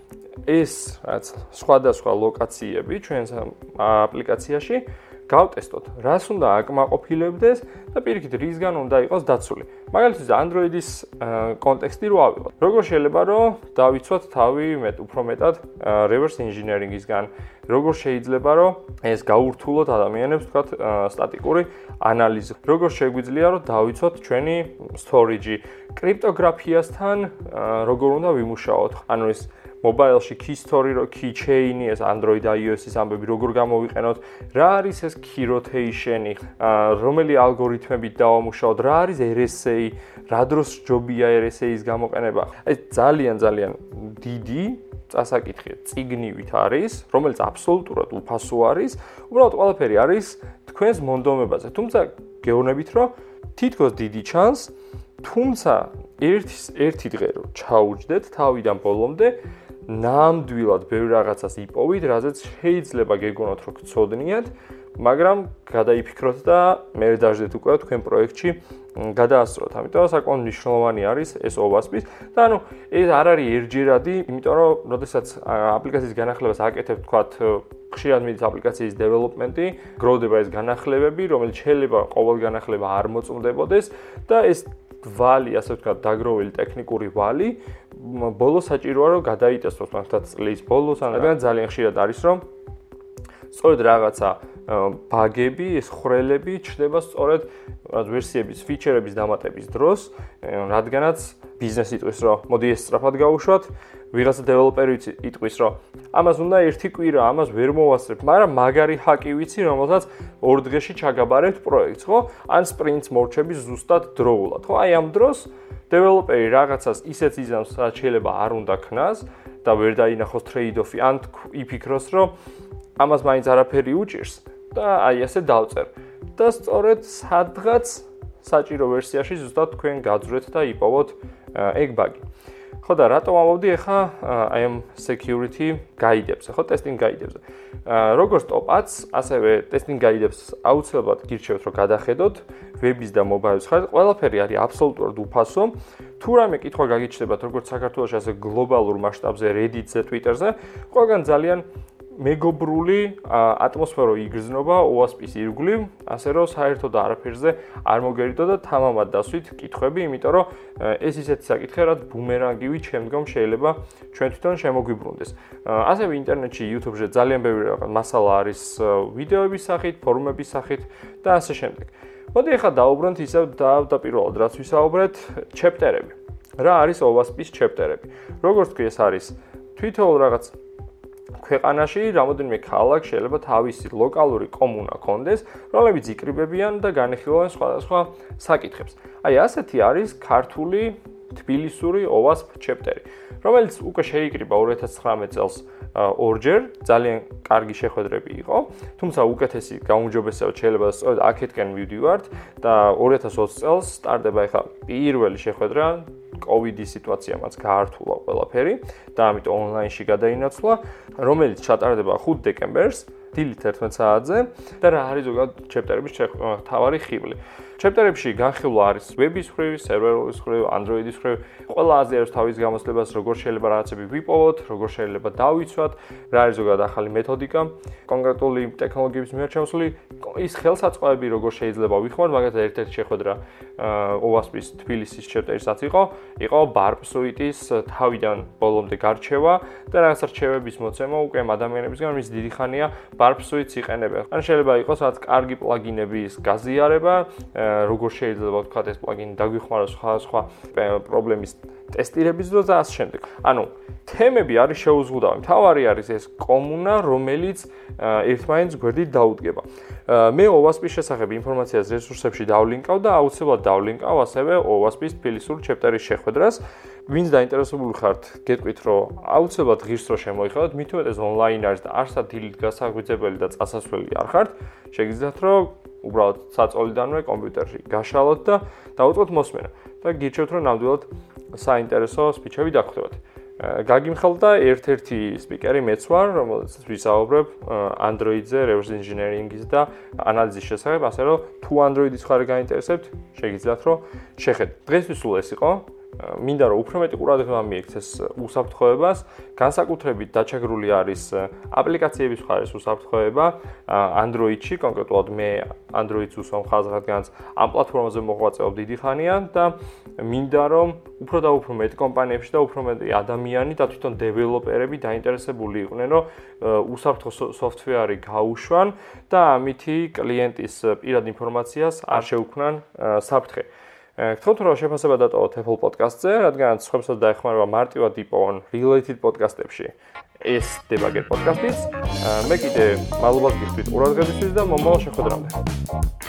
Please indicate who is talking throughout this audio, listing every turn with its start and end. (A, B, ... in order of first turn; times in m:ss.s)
0:00.4-1:32.4 A
1:33.5-2:02.3 A
2:03.0-2:12.3 A
2:12.8-3:00.6 A
3:01.4-5:35.6 A